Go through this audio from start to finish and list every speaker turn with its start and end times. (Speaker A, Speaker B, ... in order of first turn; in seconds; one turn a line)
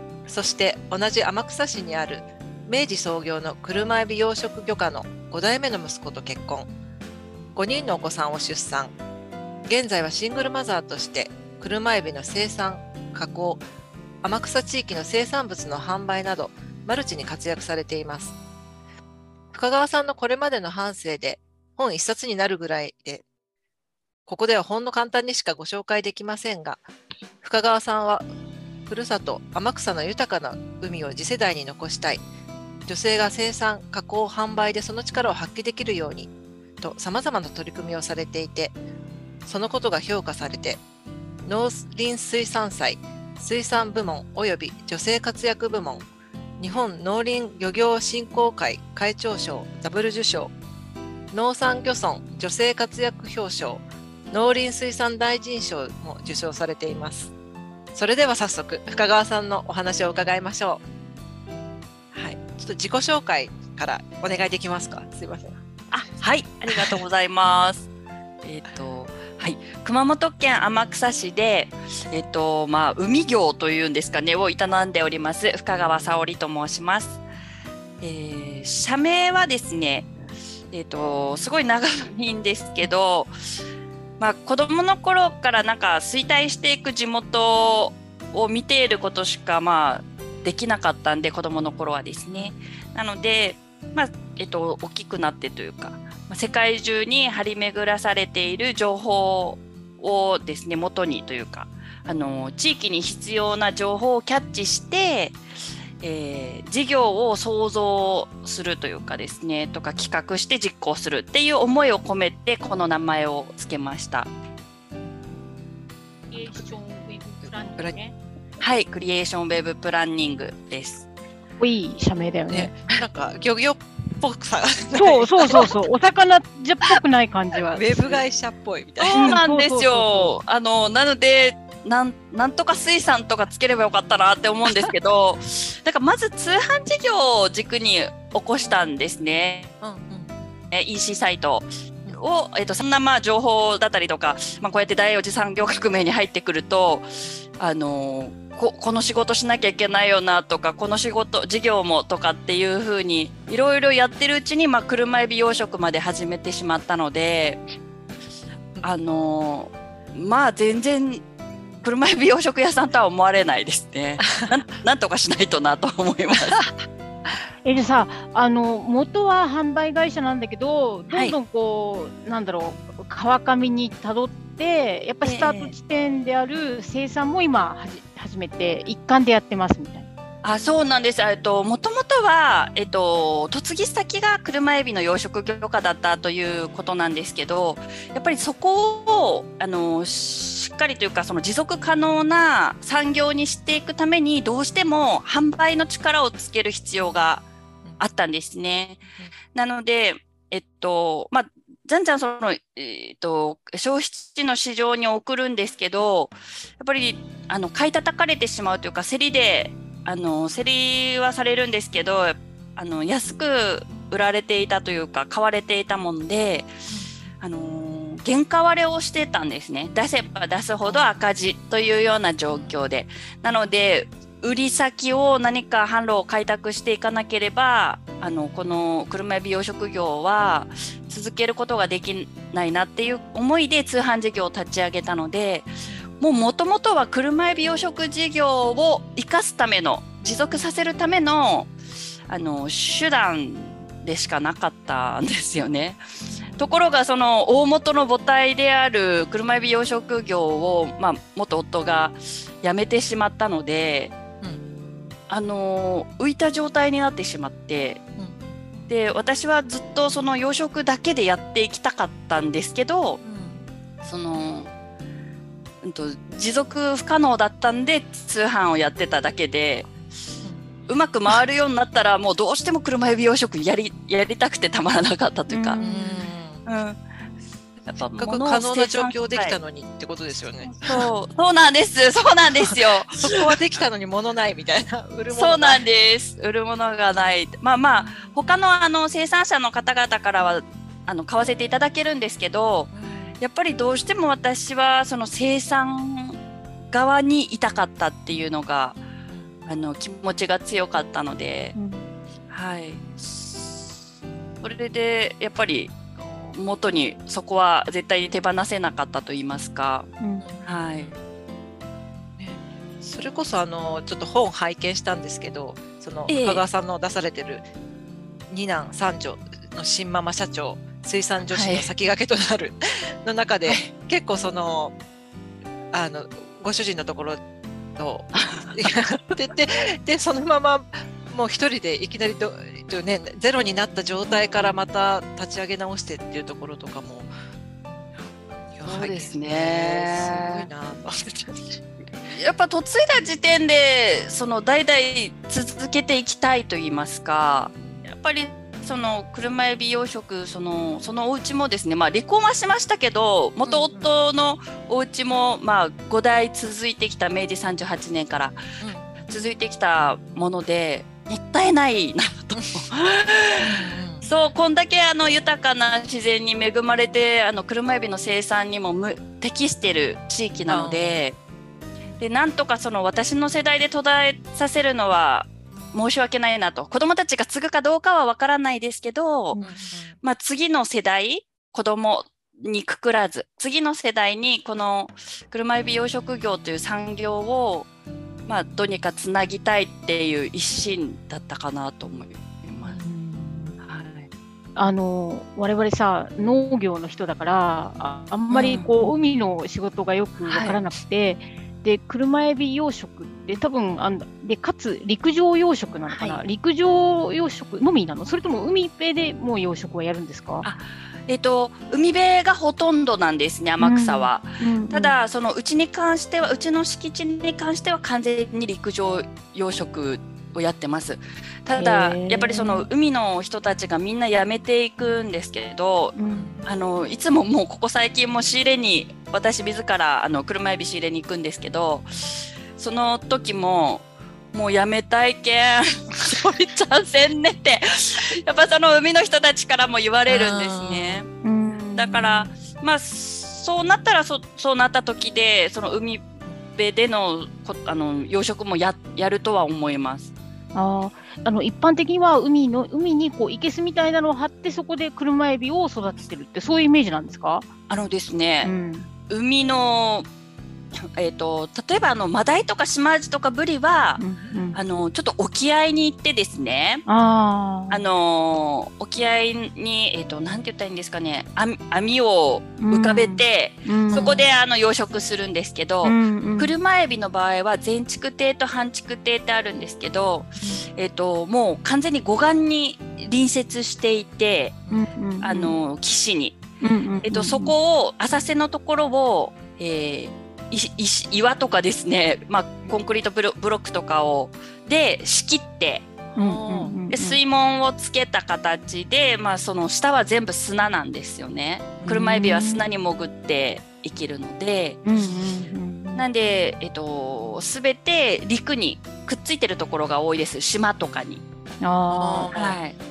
Speaker A: 0.3-6.7
Speaker A: 7.5-8.9
Speaker A: 9.7-13.6
Speaker A: 14.2-18.3
Speaker A: 19.5-23.2
Speaker A: 24.3-26.9
Speaker A: 27.4-28.2
Speaker A: 28.9-32.2
Speaker A: 32.9-36.3
Speaker A: 36.8-38.8
Speaker A: 39.5-40.8
Speaker A: 41.4-46.1
Speaker A: 46.6-50.5
Speaker A: 51.3-57.3
Speaker A: 57.9-60.8
Speaker A: 62.1-65.6
Speaker B: 65.9-67.9
Speaker A: 66.7-67.0
Speaker B: 68.4-77.2
Speaker B: 78.0-80.1
Speaker B: 80.7-83.3
Speaker B: 84.2-105.4
Speaker B: 106.0-114.3
Speaker C: 116.3-118.2
Speaker B: 118.6-121.1
Speaker C: 121.6-122.8
Speaker A: 122.5-125.8
Speaker C: 125.0-128.2
Speaker A: 127.7-129.4
Speaker B: 129.0-139.7
Speaker C: 129.1-130.4
Speaker A: 139.8-140.4
Speaker B: 140.7-157.6
Speaker B: 158.8-161.2
Speaker B: 161.8-166.6
Speaker A: 164.2-164.5
Speaker A: 166.5-166.7
Speaker C: 167.6-180.1
Speaker B: 175.2-175.8
Speaker B: 180.4-197.5
Speaker B: 198.0-216.7
Speaker A: 216.9-217.3
Speaker B: 217.4-241.7
Speaker A: 220.9-221.1
Speaker B: 242.3-246.0
Speaker B: 246.6-254.2
Speaker B: 255.3-258.0
Speaker A: 258.2-258.4
Speaker B: 258.9-263.2
Speaker A: 263.2-263.7
Speaker B: 264.0-264.7
Speaker B: 265.8-269.9
Speaker A: 270.4-270.7
Speaker B: 270.9-275.8
Speaker C: 275.5-276.2
Speaker A: 275.8-276.6
Speaker B: 276.6-277.0
Speaker A: 277.8-281.1
Speaker B: 277.9-279.6
Speaker B: 280.6-283.6
Speaker A: 282.7-285.8
Speaker B: 285.3-296.4
Speaker A: 292.9-293.4
Speaker B: 296.9-299.0
Speaker B: 299.7-301.8
Speaker C: 301.8-302.1
Speaker B: 302.5-303.9
Speaker B: 304.6-310.1
Speaker C: 310.2-310.5
Speaker A: 310.4-311.2
Speaker B: 310.6-311.1
Speaker A: 312.4-317.6
Speaker B: 316.3-316.6
Speaker A: 318.5-324.9
Speaker B: 321.5-321.9
Speaker A: 325.9-327.4
Speaker A: 328.0-337.3
Speaker B: 328.4-328.8
Speaker B: 334.3-334.7
Speaker A: 338.1-341.8
Speaker B: 338.9-340.7
Speaker B: 342.2-358.6
Speaker A: 347.8-348.0
Speaker A: 353.6-354.1
Speaker A: 358.8-359.3
Speaker B: 359.2-371.4
Speaker A: 362.6-362.8
Speaker A: 363.6-364.3
Speaker A: 370.7-371.1
Speaker B: 372.2-379.6
Speaker C: 379.5-379.8
Speaker A: 379.6-380.2
Speaker B: 380.2-387.9
Speaker B: 388.5-393.0
Speaker C: 393.0-393.8
Speaker B: 393.8-394.3
Speaker C: 394.8-410.7
Speaker B: 398.5-399.0
Speaker B: 400.5-400.8
Speaker B: 410.6-441.3
Speaker C: 413.8-415.1
Speaker C: 421.8-422.9
Speaker C: 426.2-426.6
Speaker A: 426.3-426.6
Speaker A: 436.2-436.7
Speaker A: 440.3-441.2
Speaker C: 441.4-442.5
Speaker B: 441.9-450.3
Speaker C: 450.7-457.7
Speaker B: 457.9-458.7
Speaker C: 458.6-459.1
Speaker B: 459.3-460.3
Speaker B: 461.0-464.2
Speaker C: 464.2-464.8
Speaker B: 464.8-467.1
Speaker C: 467.1-468.0
Speaker B: 467.9-484.8
Speaker C: 472.8-474.4
Speaker C: 476.0-476.7
Speaker C: 484.9-485.8
Speaker B: 485.4-486.6
Speaker C: 486.8-487.7
Speaker B: 487.2-496.1
Speaker A: 496.4-497.0
Speaker C: 496.4-497.4
Speaker B: 497.1-505.0
Speaker A: 502.0-502.4
Speaker C: 502.1-502.9
Speaker C: 505.1-506.2
Speaker B: 506.1-511.4
Speaker C: 511.8-512.5
Speaker A: 512.1-512.8
Speaker B: 512.5-513.0